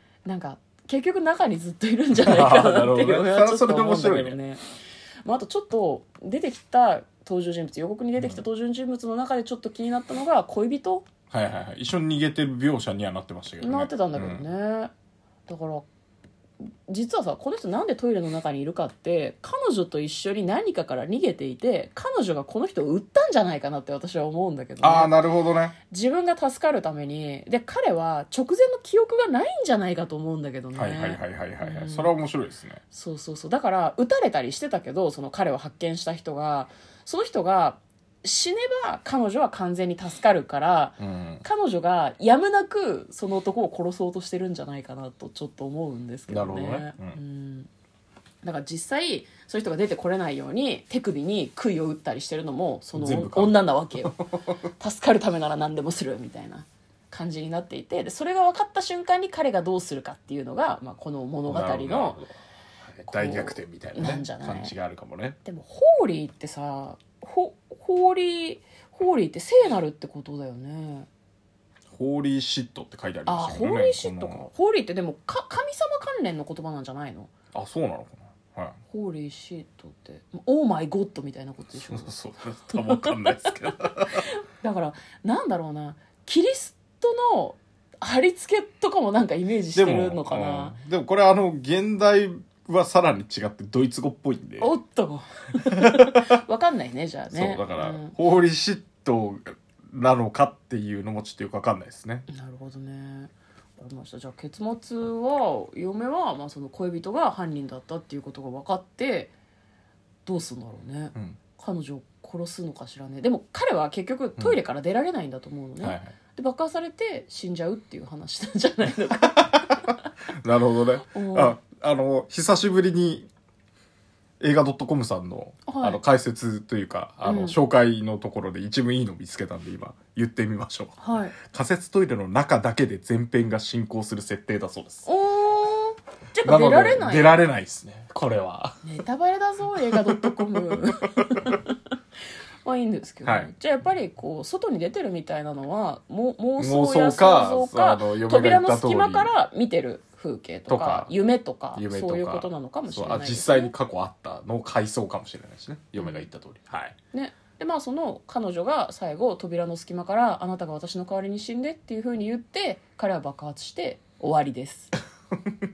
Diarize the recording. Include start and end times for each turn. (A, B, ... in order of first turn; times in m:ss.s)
0:00.2-0:04.6 A
0:02.1-0:04.4 B
0:05.2-0:11.1 A
0:08.2-0:08.4 B
0:11.3-0:14.4 B
0:13.6-0:14.9 A
0:15.5-0:15.8 A
0:16.9-0:25.2 A
0:24.8-0:25.7 B
0:25.9-0:32.1 A
0:30.7-0:32.8 B
0:32.9-0:47.7 A
0:41.0-0:41.4 B
0:46.3-0:47.2 B
0:48.4-0:54.2 A
0:52.9-0:54.4 B
0:54.8-1:02.2 A
1:01.5-1:02.3 B
1:02.9-1:05.4 B
1:03.0-1:04.7 A
1:05.4-1:11.1 A
1:11.9-1:14.5 B
1:13.2-1:17.3 A
1:17.5-1:18.8 B
1:18.9-1:22.1 A
1:21.8-1:24.2 B
1:22.7-1:30.8 A
1:29.7-1:34.7 B
1:34.6-1:38.2 A
1:35.6-1:36.4 B
1:37.3-1:42.3 B
1:42.3-1:49.3 A
1:50.2-1:59.8 A
1:51.1-1:51.4 B
1:55.8-1:56.1 B
2:00.4-2:03.3 B
2:01.1-2:01.5 A
2:04.4-2:15.1 B
2:05.6-2:06.0 A
2:07.2-2:07.6 A
2:11.0-2:11.4 A
2:15.0-2:17.4 A
2:16.4-2:18.8 B
2:18.8-2:21.8 A
2:19.8-2:21.5 B
2:22.6-2:33.7 A
2:23.2-2:23.5 B
2:26.6-2:29.3 B
2:30.7-2:31.1 B
2:31.7-2:37.0 B
2:36.0-2:36.3 A
2:37.1-2:44.9 A